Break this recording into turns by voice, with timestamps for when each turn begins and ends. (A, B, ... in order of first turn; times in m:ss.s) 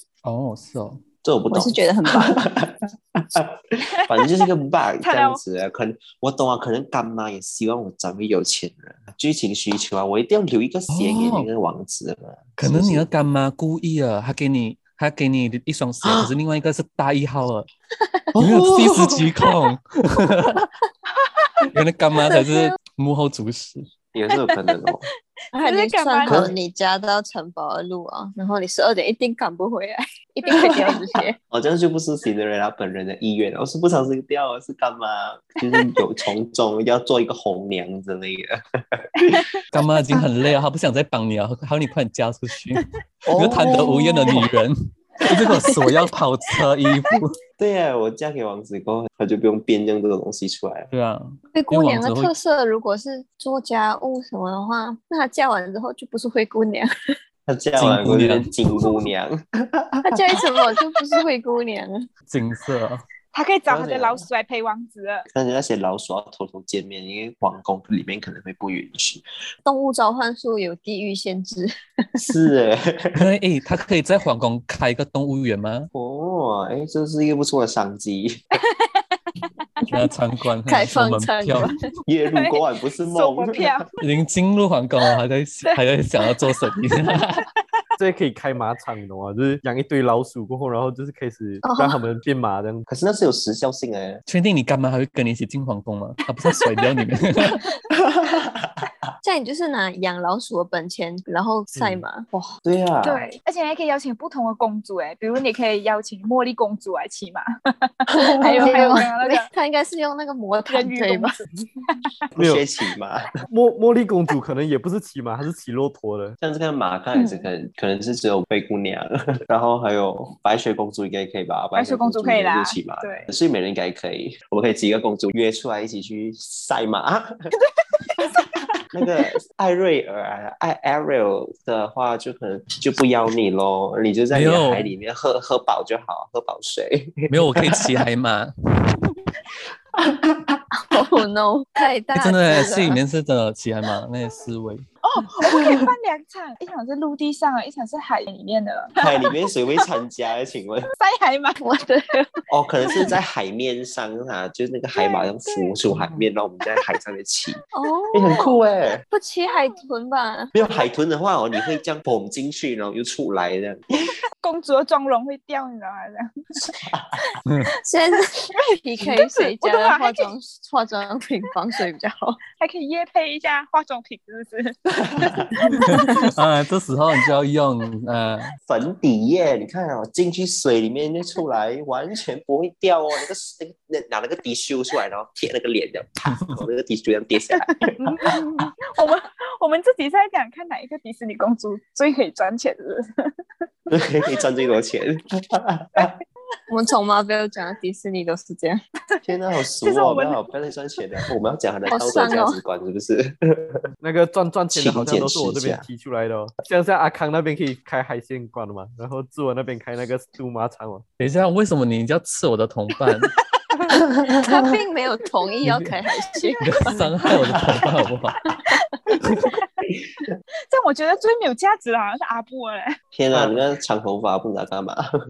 0:00.2-0:01.1 A
0:01.2-0:13.0 B
0:01.5-0:02.4 C
0:04.0-0:04.4 D
0:05.0-0:05.4 D
0:10.9-0:11.5 A
0:12.6-0:17.7 A
0:16.0-0:16.3 B
0:18.0-0:18.3 C
0:18.4-0:19.4 B
0:18.4-0:20.6 A
0:21.2-0:21.6 D
0:21.7-0:23.9 A
0:22.1-0:22.8 C
0:24.1-0:25.1 B
0:24.5-0:24.7 D
0:25.5-0:31.4 C
0:25.6-0:26.5 D
0:26.3-0:26.5 B
0:30.5-0:39.6 B
0:39.7-0:47.4 A
0:43.3-0:44.4 B
0:45.3-0:46.1 C
0:47.6-0:50.9 B
0:50.9-0:52.3 A
0:51.5-0:56.9 C
0:57.5-1:00.6 B
0:57.8-0:58.6 A
1:00.1-1:02.0 C
1:02.3-1:03.0 A
1:03.3-1:05.3 D
1:03.7-1:04.2 B
1:05.3-1:09.2 B
1:09.6-1:12.3 C
1:12.2-1:13.3 B
1:13.2-1:15.9 A
1:15.9-1:18.4 B
1:18.6-1:19.2 D
1:19.9-1:21.7 A
1:20.7-1:21.9 C
1:22.1-1:23.8 B
1:22.3-1:23.9 D
1:24.0-1:27.5 A
1:25.7-1:26.7 D
1:28.0-1:32.9 E
1:31.6-1:32.0 C
1:32.9-1:34.2 B
1:34.3-1:37.6 A
1:36.5-1:36.9 D
1:37.5-1:37.8 D
1:38.0-1:38.8 B
1:39.2-1:42.6 C
1:41.8-1:42.0 A
1:42.6-1:43.3 B
1:43.0-1:49.5 D
1:48.1-1:49.0 B
1:48.4-1:51.4 C
1:50.7-1:52.1 D
1:52.3-1:53.3 B
1:52.4-1:52.6 E
1:53.5-1:56.4 E
1:56.4-2:07.3 B
2:01.8-2:03.3 D
2:08.0-2:08.6 D
2:08.2-2:18.0 B
2:14.3-2:14.9 A
2:17.3-2:19.1 A
2:20.0-2:20.6 B
2:20.8-2:23.0 C
2:22.1-2:24.9 A
2:25.0-2:29.3 D
2:29.0-2:30.9 B
2:31.0-2:31.6 D
2:31.6-2:32.4 C
2:32.5-2:37.6 B
2:34.9-2:35.7 D
2:35.9-2:36.2 A
2:37.7-2:38.6 C
2:38.1-2:39.0 B
2:39.1-2:40.5 C
2:40.5-2:44.2 B
2:44.4-2:46.5 D
2:46.6-2:46.8 C
2:46.9-2:47.2 B
2:47.5-2:47.7 A
2:47.8-2:52.4 C
2:48.6-2:50.3 D
2:52.6-2:55.8 D
2:55.1-2:55.5 B
2:55.7-2:58.5 A
2:55.7-2:56.3 C
2:58.7-3:08.4 B
3:06.4-3:06.6 A
3:07.7-3:13.3 D
3:13.9-3:16.2 B
3:16.7-3:18.8 C
3:19.2-3:23.8 B
3:19.8-3:20.4 D
3:21.9-3:22.6 C
3:24.0-3:31.0 E
3:24.7-3:25.8 B
3:31.2-3:33.3 A
3:33.2-3:33.9 D
3:34.2-3:34.6 B
3:34.3-3:36.8 C
3:35.6-3:36.0 A
3:36.6-3:38.4 A
3:39.2-3:39.5 A
3:40.7-3:43.0 D
3:43.1-3:45.0 B
3:43.3-3:43.6 E